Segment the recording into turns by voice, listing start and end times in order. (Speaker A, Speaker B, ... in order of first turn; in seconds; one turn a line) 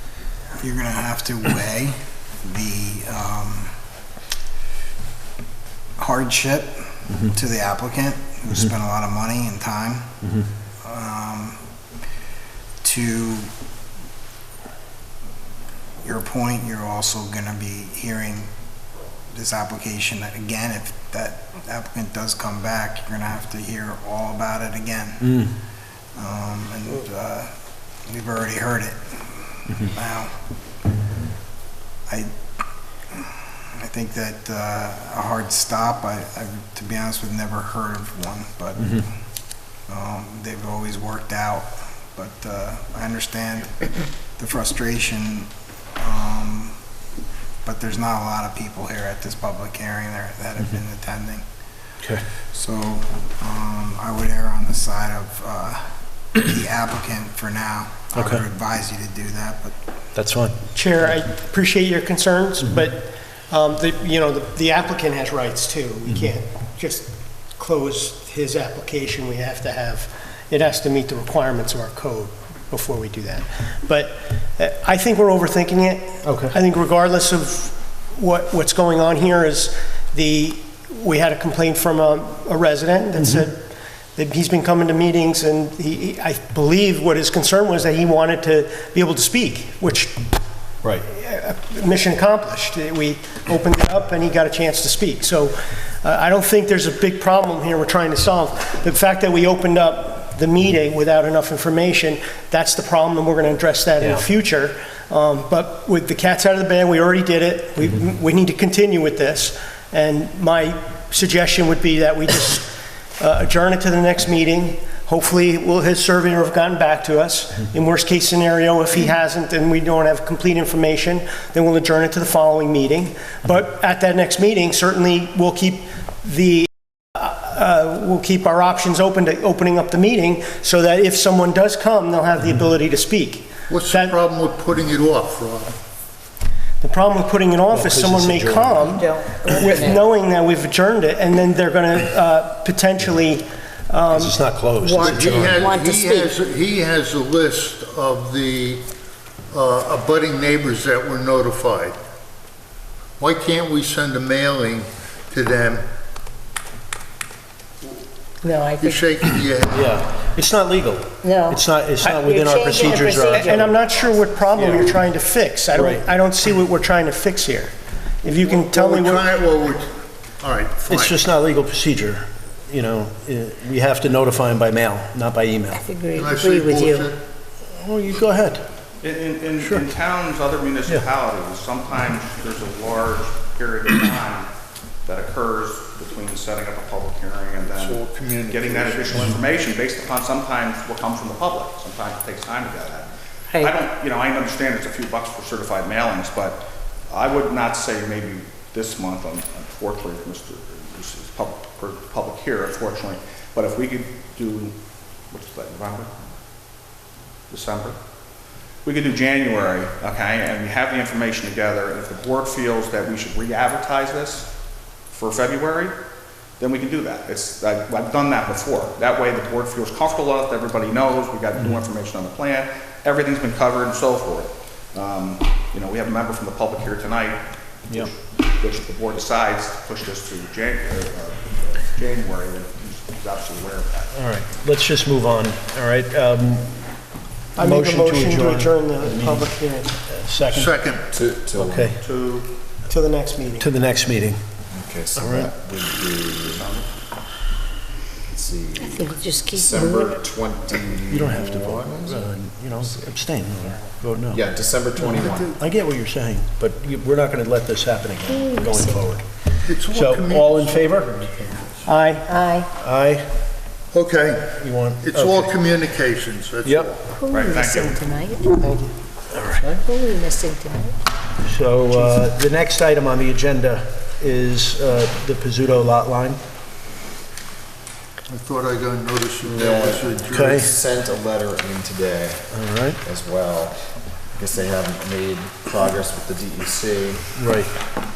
Speaker A: 0.6-3.8
Speaker A: 6.0-10.1
Speaker A: 10.8-11.6
Speaker A: 12.8-13.5
Speaker A: 16.0-18.5
Speaker A: 19.3-25.4
Speaker B: 25.2-25.5
Speaker A: 26.1-27.5
Speaker A: 28.1-30.3
Speaker A: 32.1-33.2
Speaker A: 33.8-39.1
Speaker A: 39.9-46.8
Speaker A: 47.6-51.4
Speaker A: 52.5-59.7
Speaker B: 58.1-58.4
Speaker B: 60.1-60.5
Speaker C: 60.7-90.2
Speaker B: 76.2-76.5
Speaker C: 91.0-134.2
Speaker D: 133.7-135.8
Speaker C: 136.8-144.4
Speaker B: 137.7-139.0
Speaker E: 138.8-140.1
Speaker B: 144.1-145.7
Speaker E: 144.8-146.3
Speaker D: 144.9-148.8
Speaker D: 149.5-152.0
Speaker D: 153.2-155.8
Speaker E: 158.4-159.4
Speaker D: 158.8-160.1
Speaker B: 159.7-163.7
Speaker E: 161.2-163.8
Speaker C: 162.7-169.3
Speaker B: 164.5-164.9
Speaker B: 165.7-166.1
Speaker D: 168.4-171.2
Speaker B: 170.9-175.9
Speaker E: 175.7-177.1
Speaker D: 176.1-177.2
Speaker B: 177.7-178.6
Speaker F: 179.0-184.5
Speaker B: 179.6-179.8
Speaker F: 185.0-204.7
Speaker D: 187.7-189.4
Speaker F: 205.3-206.1
Speaker F: 207.5-207.9
Speaker F: 208.8-214.5
Speaker F: 215.1-215.9
Speaker F: 216.6-234.1
Speaker B: 234.1-236.8
Speaker C: 237.6-239.9
Speaker B: 237.6-240.8
Speaker D: 240.5-241.1
Speaker G: 241.1-242.0
Speaker B: 241.5-242.0
Speaker F: 242.0-242.5
Speaker C: 242.9-243.7
Speaker B: 243.6-244.4
Speaker G: 244.7-246.7
Speaker B: 245.2-245.5
Speaker F: 246.3-246.9
Speaker G: 248.3-253.1
Speaker E: 248.8-250.2
Speaker B: 251.1-254.4
Speaker G: 254.3-255.5
Speaker B: 255.0-259.3
Speaker D: 255.3-255.5
Speaker E: 258.2-259.1
Speaker D: 259.6-261.9
Speaker B: 259.9-261.6
Speaker C: 261.9-262.4
Speaker E: 262.3-262.7
Speaker B: 262.8-263.3
Speaker D: 263.9-267.0
Speaker B: 264.5-265.5
Speaker B: 266.6-266.9
Speaker E: 267.1-268.7
Speaker F: 267.3-268.1
Speaker C: 268.6-268.9
Speaker B: 269.3-269.8
Speaker E: 269.7-270.9
Speaker B: 271.4-276.4
Speaker D: 278.3-280.7
Speaker G: 279.4-287.6
Speaker B: 280.3-280.7
Speaker B: 282.5-283.0
Speaker B: 287.3-287.7